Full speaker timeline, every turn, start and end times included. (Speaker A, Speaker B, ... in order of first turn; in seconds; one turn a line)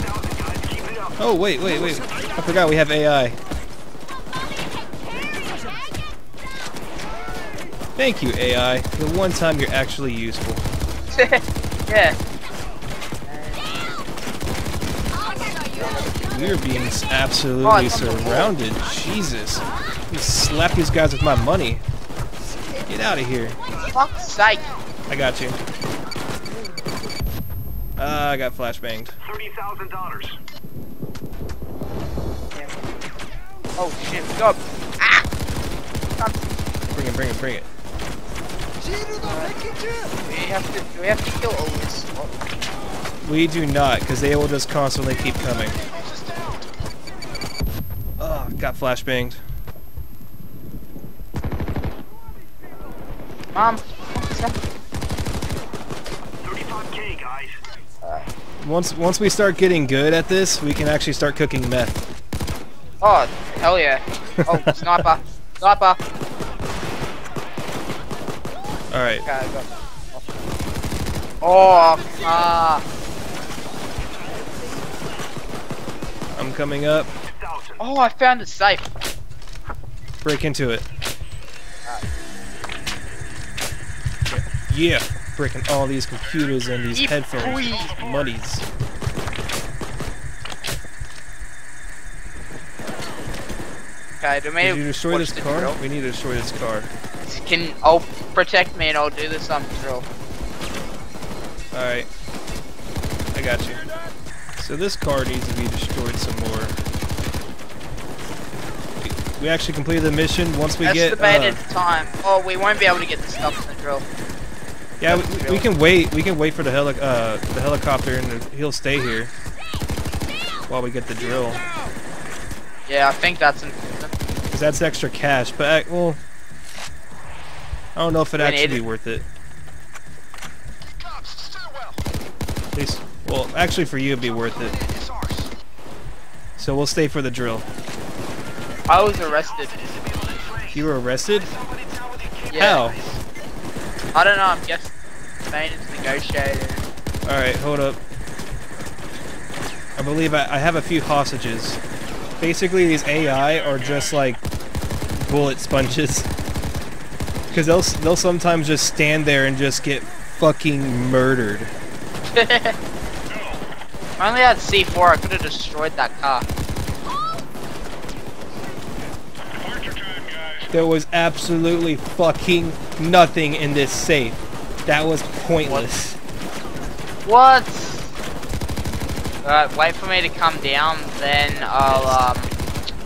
Speaker A: 1.2-3.4
Speaker A: 8.0-10.6
Speaker B: 11.1-12.2
Speaker B: 13.3-13.7
Speaker B: 15.3-16.6
Speaker A: 16.3-21.8
Speaker B: 17.6-18.5
Speaker A: 22.9-23.6
Speaker B: 23.9-24.7
Speaker A: 25.1-25.6
Speaker A: 28.0-29.2
Speaker B: 33.8-35.3
Speaker B: 36.2-36.5
Speaker A: 36.9-37.7
Speaker B: 39.2-39.6
Speaker B: 40.2-42.4
Speaker A: 43.2-45.8
Speaker A: 48.2-49.4
Speaker B: 53.5-54.6
Speaker B: 58.0-58.3
Speaker A: 58.6-62.0
Speaker B: 63.0-66.0
Speaker A: 64.4-65.0
Speaker A: 68.9-69.2
Speaker B: 69.2-70.3
Speaker B: 71.4-72.8
Speaker A: 76.3-77.1
Speaker B: 77.8-78.9
Speaker A: 80.2-80.9
Speaker A: 84.3-88.7
Speaker B: 86.9-88.1
Speaker B: 94.2-95.8
Speaker A: 94.6-96.9
Speaker B: 97.2-100.1
Speaker A: 101.7-102.1
Speaker A: 103.3-103.8
Speaker A: 104.6-106.8
Speaker A: 109.0-111.6
Speaker B: 110.8-114.0
Speaker A: 115.0-119.3
Speaker B: 115.1-115.7
Speaker A: 120.7-121.6
Speaker B: 122.9-124.1
Speaker A: 124.5-126.2
Speaker A: 128.0-129.3
Speaker B: 128.4-128.8
Speaker A: 132.7-134.8
Speaker A: 136.6-137.7
Speaker B: 138.9-139.8
Speaker A: 140.7-141.5
Speaker B: 142.5-142.9
Speaker A: 142.6-143.0
Speaker B: 144.1-144.9
Speaker B: 145.5-146.8
Speaker A: 147.3-148.0
Speaker A: 150.0-151.8
Speaker A: 152.4-154.4
Speaker A: 155.2-156.3
Speaker A: 157.5-161.7
Speaker B: 162.3-162.8
Speaker B: 164.2-166.5
Speaker A: 170.7-176.2
Speaker B: 177.3-178.1
Speaker B: 179.4-182.5
Speaker A: 181.6-182.2